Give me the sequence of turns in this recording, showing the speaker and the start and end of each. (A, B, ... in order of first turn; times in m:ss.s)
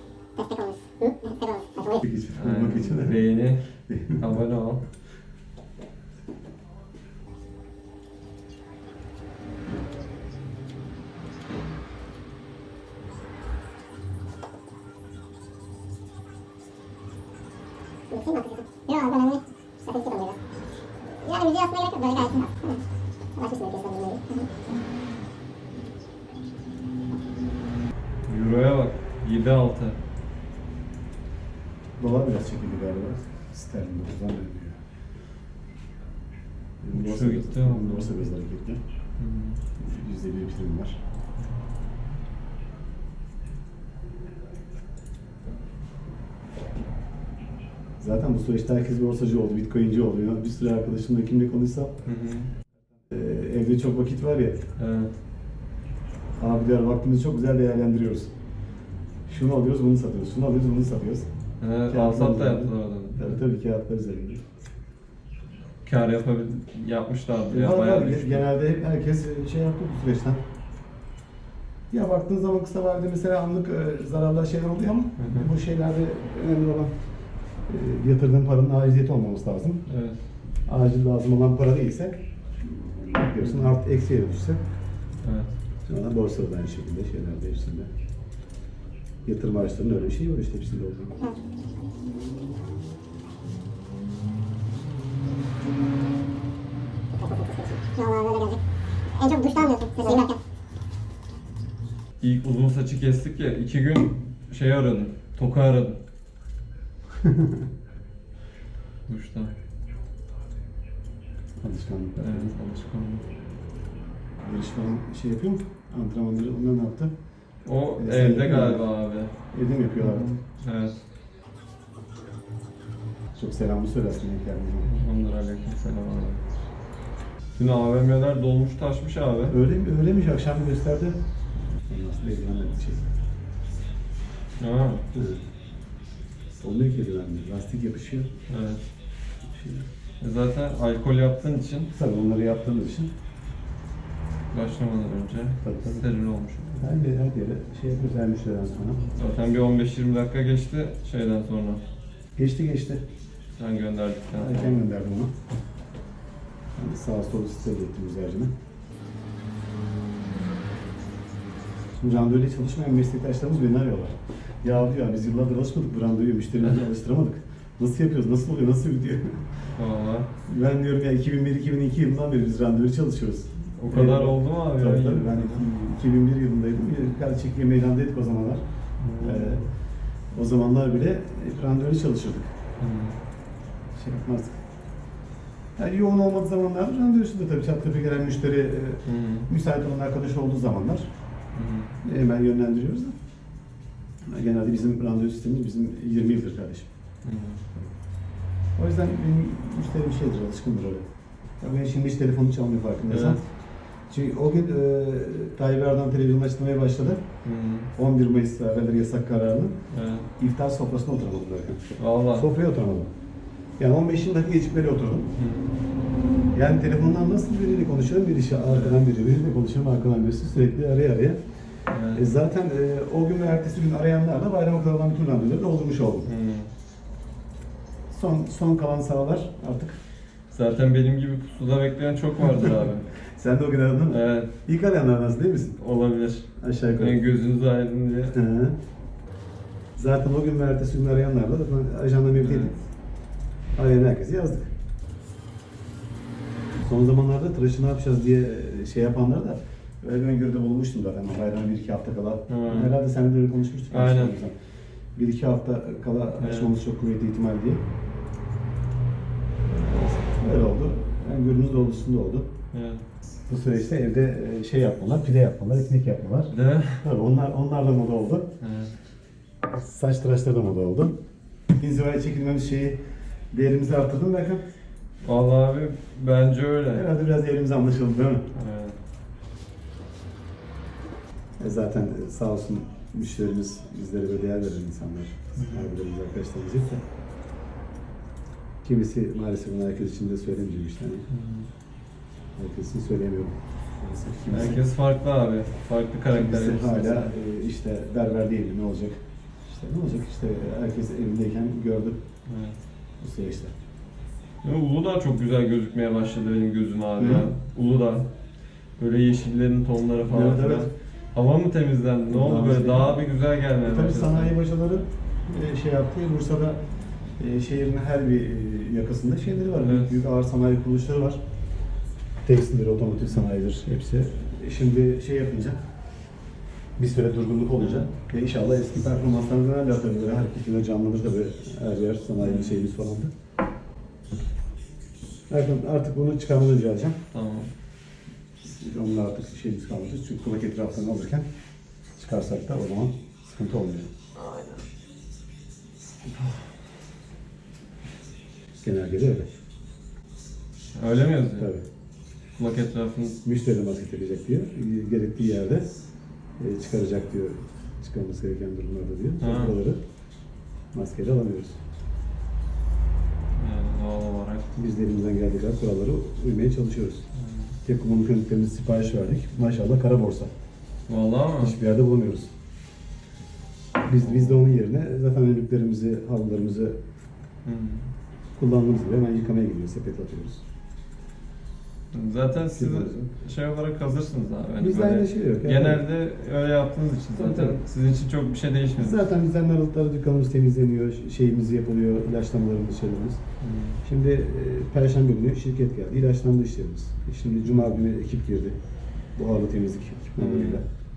0:00.4-0:02.0 A
0:02.0-0:03.2 B
0:02.4-0:04.8 C
0:03.9-0:04.2 B
0:18.1-0:20.4 A
0:21.1-0:22.8 A
0:23.4-0:24.5 A
0:28.3-0:30.0 C
0:32.0-0:34.8 B
0:36.8-0:38.8 B
0:36.9-0:38.2 C
0:39.2-0:39.6 C
0:39.8-0:41.0 B
0:48.0-0:52.0 B
0:52.1-0:52.5 C
0:53.1-0:54.7 B
0:54.8-0:55.1 C
0:56.4-0:58.3 B
0:59.3-1:01.3 B
1:01.6-1:03.4 C
1:01.9-1:04.4 B
1:05.8-1:08.5 C
1:07.5-1:10.4 B
1:11.9-1:16.9 B
1:15.2-1:15.5 C
1:17.7-1:19.8 B
1:19.9-1:20.2 C
1:20.7-1:24.6 B
1:23.4-1:23.7 C
1:25.2-1:25.5 C
1:25.9-1:27.9 B
1:29.2-1:31.1 B
1:37.2-1:38.6 A
1:39.1-1:40.4 A
1:42.2-1:46.0 C
1:47.2-1:47.7 B
1:49.1-1:49.5 C
1:51.6-1:52.5 B
1:52.2-1:53.3 C
1:54.4-1:57.2 B
1:57.6-1:59.3 C
1:58.0-1:58.9 B
1:59.5-2:00.3 B
2:00.0-2:01.0 C
2:03.4-2:04.9 B
2:04.8-2:06.4 C
2:07.6-2:09.6 C
2:09.5-2:11.2 B
2:11.8-2:13.1 B
2:14.6-2:15.1 C
2:15.1-2:15.4 B
2:16.6-2:18.3 B
2:18.5-2:18.8 C
2:19.5-2:19.9 B
2:20.2-2:21.9 C
2:21.9-2:23.1 B
2:24.5-2:26.8 C
2:25.6-2:26.1 B
2:26.7-2:29.1 B
2:29.2-2:31.8 C
2:32.4-2:33.0 B
2:33.6-2:34.8 C
2:34.3-2:35.3 B
2:36.8-2:38.5 B
2:42.0-2:49.5 B
2:49.8-2:50.3 C
2:50.5-2:58.6 B
2:53.8-2:55.6 C
2:59.0-2:59.6 C
2:59.2-2:59.7 B
3:00.3-3:02.6 B
3:02.8-3:03.2 C
3:03.9-3:04.6 B
3:05.8-3:11.1 B
3:09.1-3:09.5 C
3:11.6-3:12.0 C
3:12.0-3:13.2 B
3:14.2-3:16.9 B
3:17.2-3:17.7 C
3:18.8-3:21.1 B
3:21.6-3:23.4 B
3:23.1-3:23.4 C
3:24.1-3:27.2 B
3:27.4-3:27.9 C
3:28.0-3:29.8 B
3:29.9-3:30.3 C
3:30.4-3:33.1 B
3:32.0-3:32.5 C
3:33.8-3:35.3 B
3:35.4-3:35.8 C
3:36.5-3:41.4 B
3:38.7-3:39.0 C
3:41.9-3:42.2 C
3:42.1-3:46.3 B
3:46.2-3:46.7 C
3:48.1-3:50.0 B
3:50.5-3:53.1 C
3:52.6-3:55.8 B
3:54.1-3:54.5 C
3:55.8-3:58.4 C
3:56.6-3:57.2 B
3:58.3-3:58.8 B
4:00.0-4:02.7 B
4:02.4-4:02.8 C
4:03.8-4:04.7 B
4:06.8-4:14.6 B
4:12.5-4:12.9 C
4:13.9-4:14.4 C
4:15.2-4:17.8 B
4:16.4-4:16.7 C
4:19.7-4:22.5 B
4:22.7-4:23.0 C
4:23.5-4:28.5 B
4:26.5-4:27.0 C
4:28.6-4:28.9 C
4:29.6-4:34.6 B
4:35.2-4:37.1 C
4:36.9-4:38.5 B
4:38.6-4:39.0 C
4:41.6-4:47.0 B
4:45.6-4:45.9 C
4:48.8-4:51.3 B
4:51.3-4:51.7 C
4:52.6-4:54.8 B
4:54.5-4:57.3 C
4:56.3-5:02.2 B
5:02.5-5:02.8 C
5:03.2-5:03.7 B
5:04.6-5:08.3 C
5:07.2-5:07.5 B
5:09.0-5:14.6 C
5:10.2-5:10.9 B
5:12.3-5:13.2 B
5:13.8-5:16.8 B
5:17.4-5:21.4 B
5:19.8-5:20.2 C
5:22.4-5:25.8 B
5:27.0-5:33.3 B
5:27.8-5:28.1 C
5:32.4-5:32.8 C
5:35.5-5:37.2 B
5:37.3-5:37.7 C
5:38.7-5:41.5 B
5:42.2-5:44.1 B
5:44.4-5:44.8 C
5:48.8-5:49.5 B
5:50.9-5:51.7 C
5:51.6-5:51.8 B
5:52.6-5:53.4 C
5:53.4-5:55.9 B
5:56.6-6:00.0 B
5:59.4-5:59.8 C
6:00.9-6:01.8 B
6:03.6-6:04.7 C
6:04.8-6:07.3 B
6:07.4-6:07.8 C
6:07.8-6:10.5 B
6:11.1-6:11.8 C
6:11.6-6:12.5 B
6:14.0-6:17.0 B
6:14.2-6:14.6 C
6:17.6-6:18.1 C
6:18.6-6:20.6 B
6:22.1-6:29.2 C
6:22.7-6:23.3 B
6:24.8-6:26.1 B
6:27.4-6:27.8 B
6:29.0-6:33.4 B
6:33.6-6:34.0 C
6:34.0-6:38.8 B
6:39.4-6:40.8 B
6:40.4-6:40.8 C